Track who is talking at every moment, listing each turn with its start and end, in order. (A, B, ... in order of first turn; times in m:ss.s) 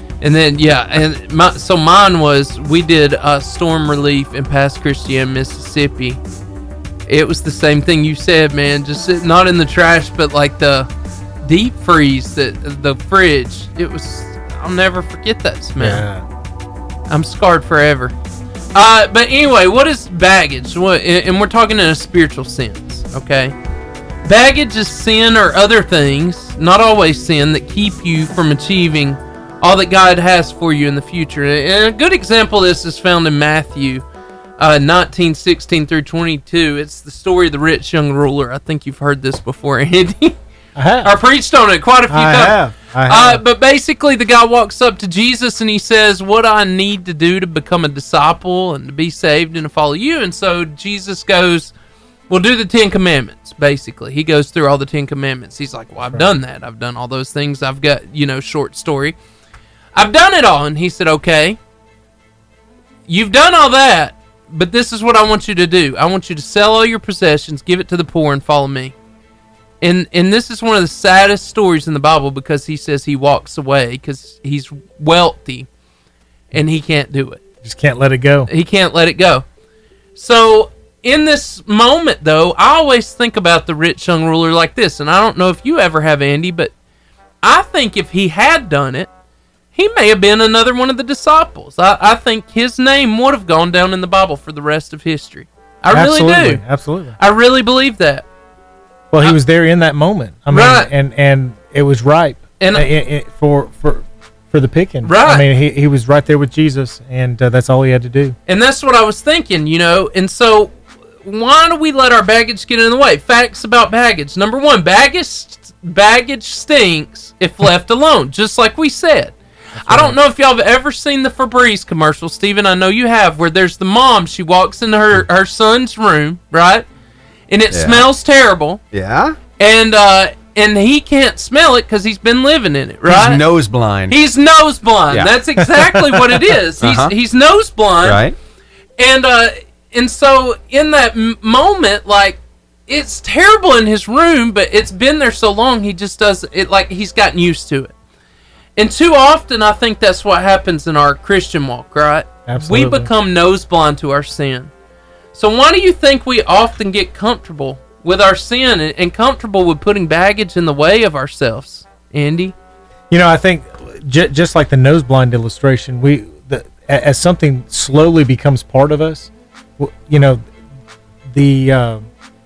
0:00.2-0:06.2 A
0:07.1-0:10.9 A
0:11.4-0:16.0 A
0:15.8-0:16.2 B
0:17.1-0:18.1 A
0:18.7-0:23.6 A
0:24.2-0:34.0 A
0:34.6-0:40.4 A
0:40.8-0:41.2 B
0:41.0-0:51.7 A
0:42.1-0:43.4 B
0:52.3-0:59.2 A
1:00.0-1:01.6 A
1:03.1-1:09.0 A
1:09.8-1:15.7 A
1:16.5-1:17.4 A
1:17.6-1:18.5 B
1:18.5-1:19.4 A
1:20.2-1:26.7 A
1:27.4-1:29.1 A
1:29.7-1:36.6 A
1:35.9-1:37.2 B
1:37.2-1:38.2 A
1:39.1-1:48.4 B
1:40.5-1:40.9 A
1:42.6-1:42.9 A
1:45.0-1:45.5 A
1:48.5-2:06.9 A
1:59.9-2:00.1 B
2:07.5-2:08.8 A
2:07.7-2:08.1 C
2:08.9-2:09.4 C
2:09.6-2:13.4 A
2:13.1-2:14.2 C
2:14.1-2:18.2 A
2:15.1-2:15.4 C
2:15.7-2:16.4 B
2:16.8-2:17.2 C
2:18.0-2:18.4 C
2:19.0-2:27.9 A
2:28.8-2:34.7 A
2:32.5-2:33.1 B
2:35.3-2:42.6 A
2:43.1-2:50.4 B
2:51.3-2:52.1 B